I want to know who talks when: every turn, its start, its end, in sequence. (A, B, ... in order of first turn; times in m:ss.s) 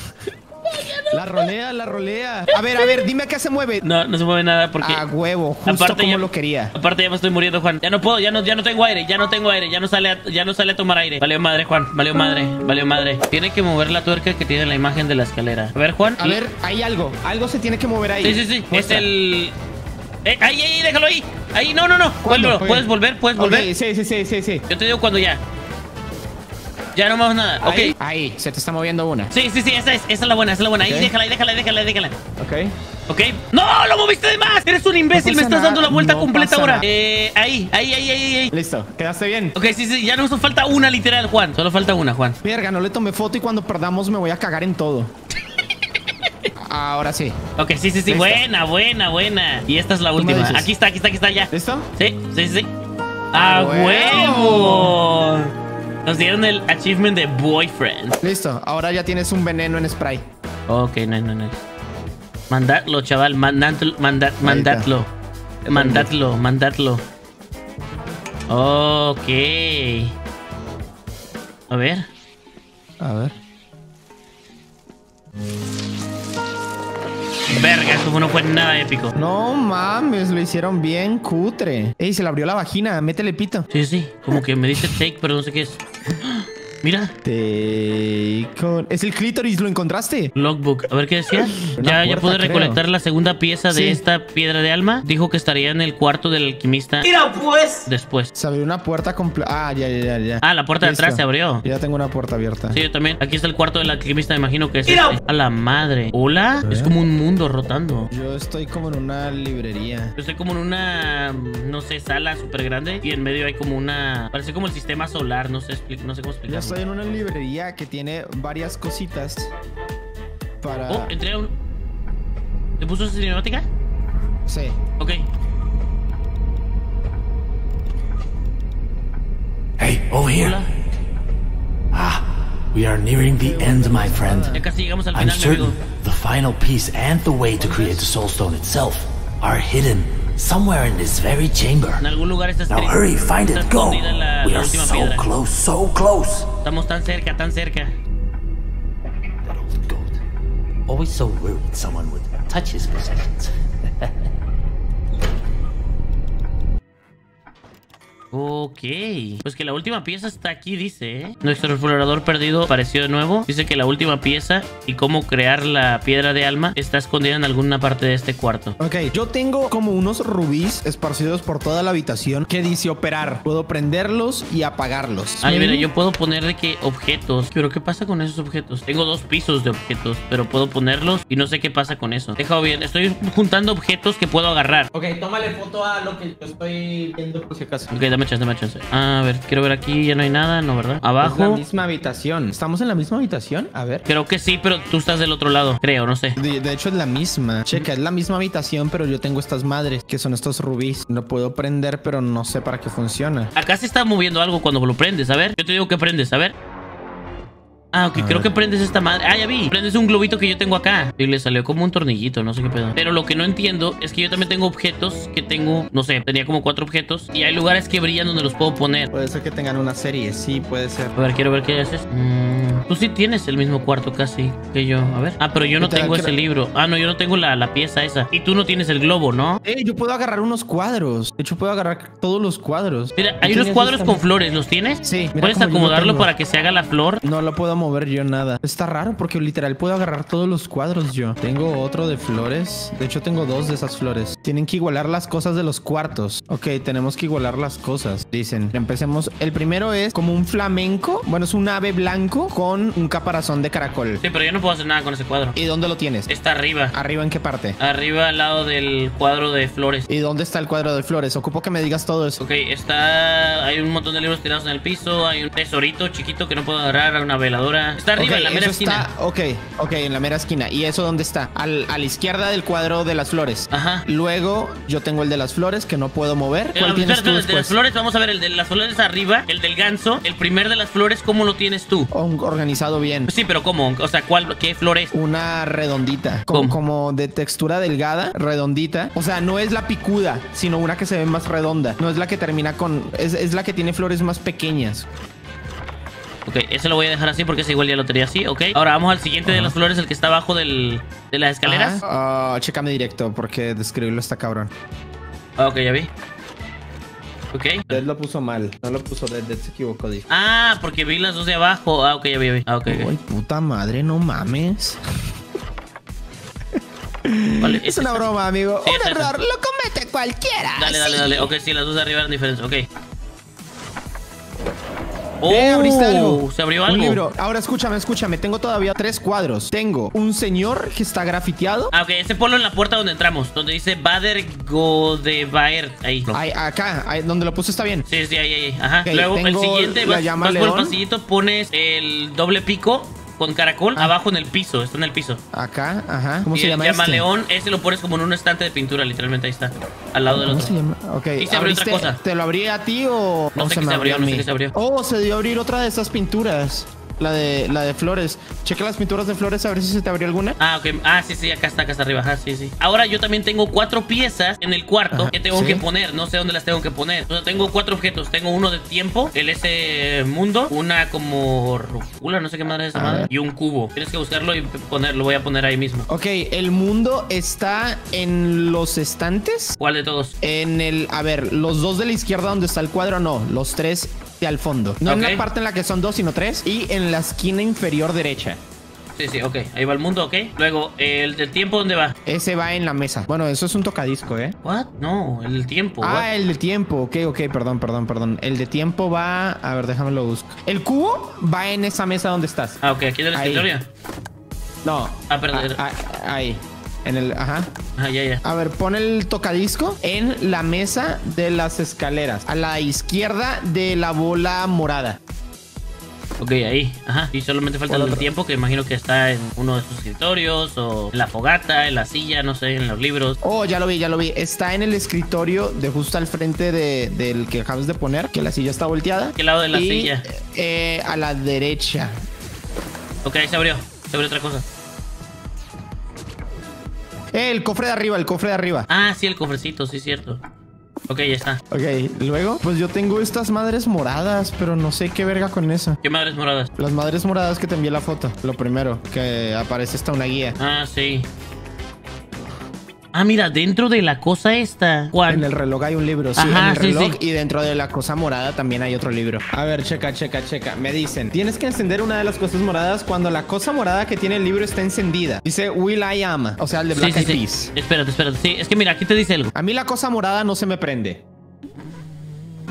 0:00.6-0:01.4 A
0:01.1-0:03.8 B
0:02.5-0:03.0 A
0:03.8-0:05.0 A
0:04.8-0:06.7 B
0:05.6-0:16.4 A
0:16.2-0:19.1 B
0:18.2-0:19.5 A
0:20.2-0:23.7 A
0:22.2-0:24.6 B
0:24.7-0:25.4 A
0:26.9-0:27.9 A
0:27.6-0:29.3 B
0:29.3-0:32.2 A
0:30.8-0:31.1 B
0:32.4-0:32.8 B
0:33.1-0:38.5 A
0:35.1-0:36.8 B
0:38.5-0:39.5 B
0:39.6-0:42.4 A
0:42.4-0:45.1 B
0:46.6-0:47.4 B
0:47.6-0:52.7 A
0:48.1-0:48.4 B
0:50.2-0:50.7 B
0:51.5-0:51.9 B
0:53.3-0:55.5 A
0:53.3-0:54.9 B
0:56.0-0:58.2 A
0:58.2-1:00.3 B
1:00.7-1:01.6 A
1:02.5-1:05.1 A
1:04.4-1:04.9 B
1:05.6-1:06.1 B
1:05.7-1:07.0 A
1:08.5-1:10.1 A
1:11.7-1:12.1 A
1:13.0-1:13.4 B
1:17.5-1:19.1 A
1:19.1-1:23.7 B
1:23.7-1:27.1 A
1:27.2-1:30.3 B
1:30.4-1:38.3 A
1:31.6-1:32.8 B
1:33.7-1:34.0 B
1:38.3-1:42.8 B
1:40.4-1:41.6 A
1:42.7-1:48.1 A
1:46.6-1:46.9 B
1:48.1-1:50.1 B
1:50.2-1:56.8 A
1:56.5-1:59.5 B
2:00.6-2:01.1 B
2:00.9-2:01.5 A
2:02.8-2:03.7 A
2:04.4-2:04.8 B
2:05.0-2:05.2 A
2:09.8-2:10.7 C
2:10.3-2:10.7 A
2:11.9-2:14.6 C
2:13.3-2:14.6 B
2:14.5-2:15.8 A
2:15.1-2:22.0 C
2:17.6-2:18.1 A
2:22.0-2:25.3 A
2:22.7-2:26.5 C
2:26.6-2:27.9 A
2:29.4-2:30.2 C
2:30.9-2:34.2 C
2:38.3-2:48.8 A
2:48.8-2:55.9 B
2:55.4-3:04.9 A
3:04.9-3:07.9 B
3:07.9-3:11.6 A
3:11.2-3:14.0 B
3:14.1-3:16.4 A
3:16.4-3:23.5 B
3:23.6-3:26.5 A
3:27.9-3:39.1 A
3:28.2-3:28.5 B
3:39.1-3:41.1 B
3:41.2-3:49.6 A
3:45.8-3:46.3 B
3:49.6-3:54.2 B
3:53.2-3:57.2 A
3:55.0-3:56.3 B
3:57.2-4:14.2 B
4:14.2-4:15.6 A
4:15.6-4:16.3 B
4:16.3-4:16.9 A
4:16.9-4:17.8 B
4:17.8-4:20.1 A
4:20.1-4:22.4 B
4:22.4-4:29.1 A
4:28.2-4:37.7 B
4:33.7-4:34.0 A
4:36.7-4:42.1 A
4:42.1-4:43.3 B
4:43.3-4:45.1 A
4:45.1-4:55.1 B
4:46.5-4:46.8 A
4:56.4-5:02.0 A
4:59.4-4:59.7 B
5:01.6-5:04.7 B
5:05.6-5:06.1 A
5:07.5-5:08.0 A
5:07.9-5:10.2 B
5:10.3-5:13.1 A
5:12.8-5:15.0 B
5:17.2-5:21.5 B
5:17.6-5:18.3 A
5:18.8-5:19.3 A
5:20.8-5:22.9 A
5:25.4-5:27.2 A
5:25.5-5:31.9 B
5:31.9-5:36.4 A
5:36.3-5:38.0 B
5:38.1-5:45.4 A
5:39.0-5:41.0 B
5:45.5-5:47.2 B
5:46.5-5:50.7 A
5:50.3-6:00.6 B
5:51.4-5:52.2 A
5:53.6-5:54.7 A
6:00.6-6:16.1 A
6:05.1-6:05.8 B
6:12.9-6:13.3 B
6:16.1-6:19.8 B
6:19.8-6:20.3 A
6:20.4-6:28.6 B
6:25.0-6:25.4 A
6:29.1-6:32.1 A
6:32.2-6:34.6 B
6:34.6-6:36.3 A
6:36.0-6:42.8 B
6:42.8-6:43.9 A
6:43.3-6:43.7 B
6:44.8-6:47.7 B
6:45.3-6:45.8 A
6:48.0-6:48.4 A
6:48.4-6:55.2 B
6:56.4-7:03.4 A
6:57.9-6:58.2 B
7:03.4-7:12.2 B
7:09.4-7:10.2 A
7:13.2-7:14.6 A
7:17.3-7:18.9 B
7:18.9-7:20.4 A
7:21.1-7:21.6 A
7:21.7-7:26.0 B
7:26.0-7:26.7 A
7:26.8-7:30.6 B
7:30.6-7:31.3 A
7:33.1-7:35.4 A
7:35.3-7:47.7 B
7:36.4-7:37.2 A
7:47.0-7:49.5 A
7:49.5-7:51.2 B